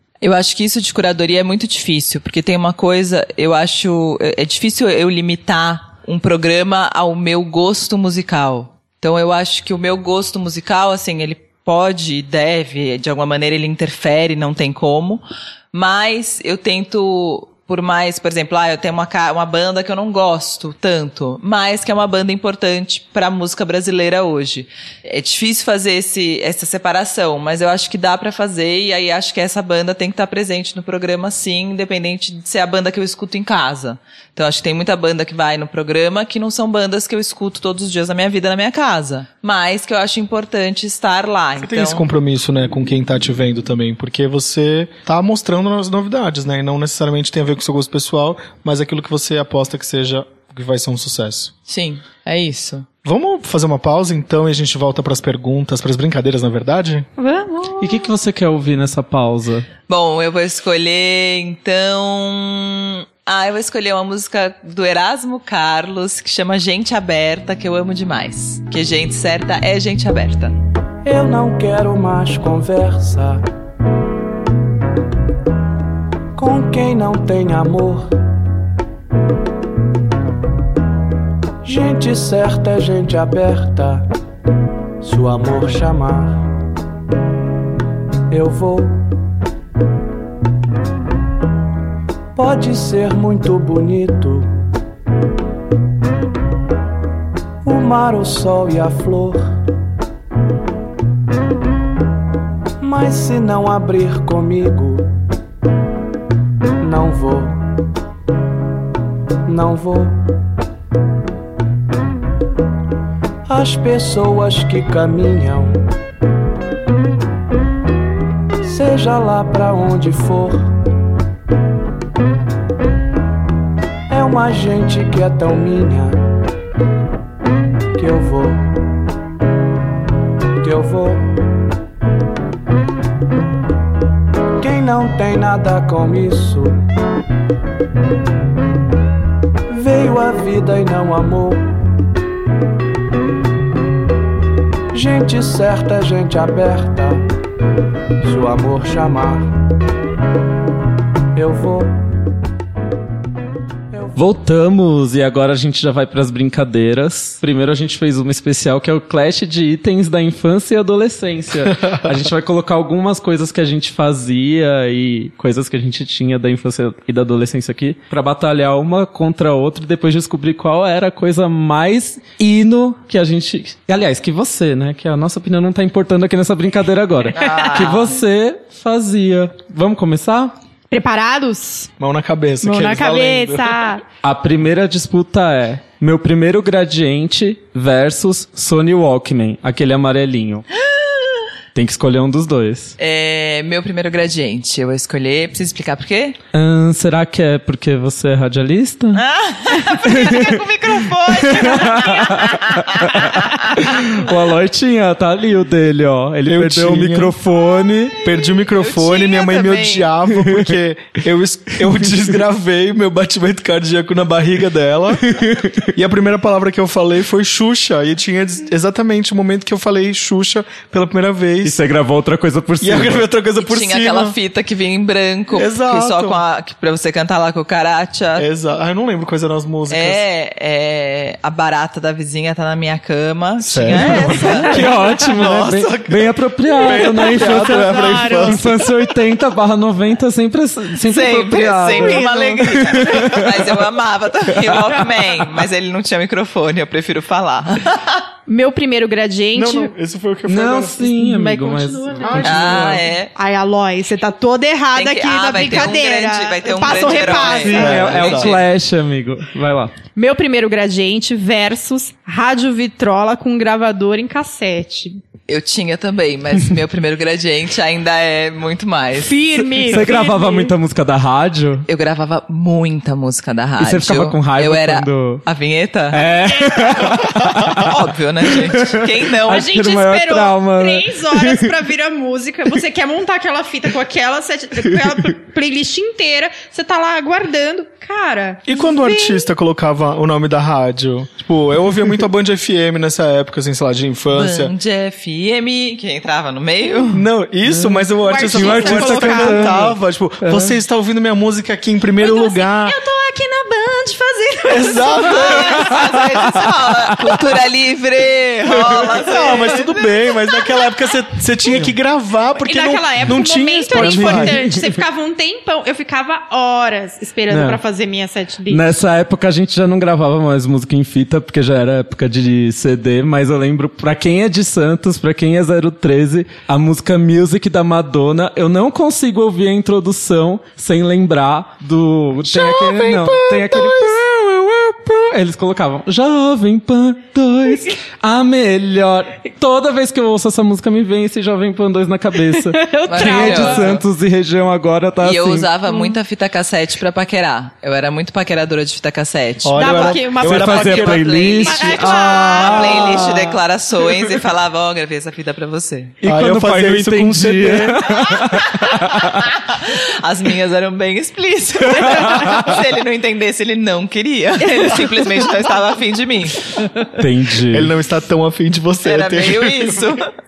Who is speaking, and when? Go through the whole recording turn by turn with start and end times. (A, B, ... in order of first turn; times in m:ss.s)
0:00.2-0:42.0 A
0:41.6-0:51.5 B
0:51.7-0:52.9 A
0:53.0-0:57.1 B
0:57.2-0:58.0 C
0:57.8-0:59.7 D
0:59.9-1:10.5 A
1:11.0-1:13.4 E
1:16.4-1:18.1 E
1:21.6-1:24.1 E
1:25.0-1:26.4 E
1:28.3-1:29.0 E
1:32.4-1:34.5 E
1:37.6-1:39.6 E
1:42.8-1:45.1 E
1:46.8-1:47.6 E
1:49.5-1:50.2 E
1:53.5-1:55.8 E
1:58.6-2:00.7 E
2:04.1-2:06.2 E
2:08.0-2:08.7 E
2:10.6-2:11.3 E
2:14.6-2:16.8 E
2:19.7-2:21.7 E
2:24.9-2:27.2 E
2:28.2-2:29.5 E
2:31.4-2:31.9 E
2:34.2-3:00.6 D
2:57.3-2:58.2 A
3:00.9-3:01.9 C
3:02.0-3:03.9 B
3:02.6-3:04.0 C
3:04.2-3:10.7 D
3:10.9-3:11.4 A
3:11.7-3:13.0 D
3:13.0-3:16.4 A
3:16.5-3:19.2 D
3:19.1-3:24.0 A
3:20.1-3:20.6 D
3:21.4-3:28.2 D
3:26.4-3:27.4 B
3:28.1-3:35.3 B
3:28.6-3:30.1 A
3:30.4-3:30.7 D
3:35.3-3:35.9 D
3:35.9-3:41.8 B
3:41.6-3:43.3 D
3:42.8-3:44.4 B
3:43.6-3:48.5 A
3:45.5-3:46.4 B
3:48.4-3:50.2 B
3:49.9-3:54.8 A
3:53.6-3:58.7 B
3:53.9-4:03.6 D
3:54.3-3:54.6 C
3:56.8-3:58.9 C
4:01.0-4:08.2 A
4:01.9-4:03.3 C
4:08.5-4:09.9 C
4:09.6-4:11.2 B
4:10.5-4:13.0 D
4:11.0-4:18.2 C
4:12.2-4:13.0 B
4:12.4-4:13.3 A
4:14.9-4:18.6 A
4:17.3-4:19.9 D
4:17.7-4:18.6 B
4:20.2-4:25.2 C
4:25.5-4:29.4 A
4:29.2-4:30.7 C
4:29.6-4:31.9 D
4:31.9-4:36.3 A
4:33.8-4:35.4 D
4:36.1-4:41.8 D
4:36.7-4:37.2 C
4:37.6-4:39.7 A
4:39.5-4:49.5 C
4:48.7-4:54.7 B
4:54.3-4:57.3 A
4:57.1-5:03.0 B
4:57.7-5:00.8 D
4:58.2-4:59.8 C
5:02.2-5:06.7 C
5:04.7-5:05.9 B
5:05.2-5:09.9 A
5:09.0-5:14.6 B
5:09.1-5:10.9 C
5:12.6-5:18.8 C
5:13.9-5:15.0 D
5:17.5-5:17.8 D
5:18.7-5:45.7 D
5:32.5-5:34.2 B
5:42.5-5:43.9 C
5:43.1-5:44.0 A
5:45.2-5:50.2 A
5:49.6-5:51.4 B
5:49.8-5:53.3 C
5:50.4-5:53.6 D
5:51.1-5:56.2 A
5:56.2-5:59.5 D
5:56.2-5:58.5 B
5:59.6-6:06.7 A
6:02.0-6:02.8 C
6:02.4-6:02.7 D
6:04.7-6:05.6 C
6:07.1-6:07.9 D
6:07.7-6:10.2 B
6:09.0-6:10.3 A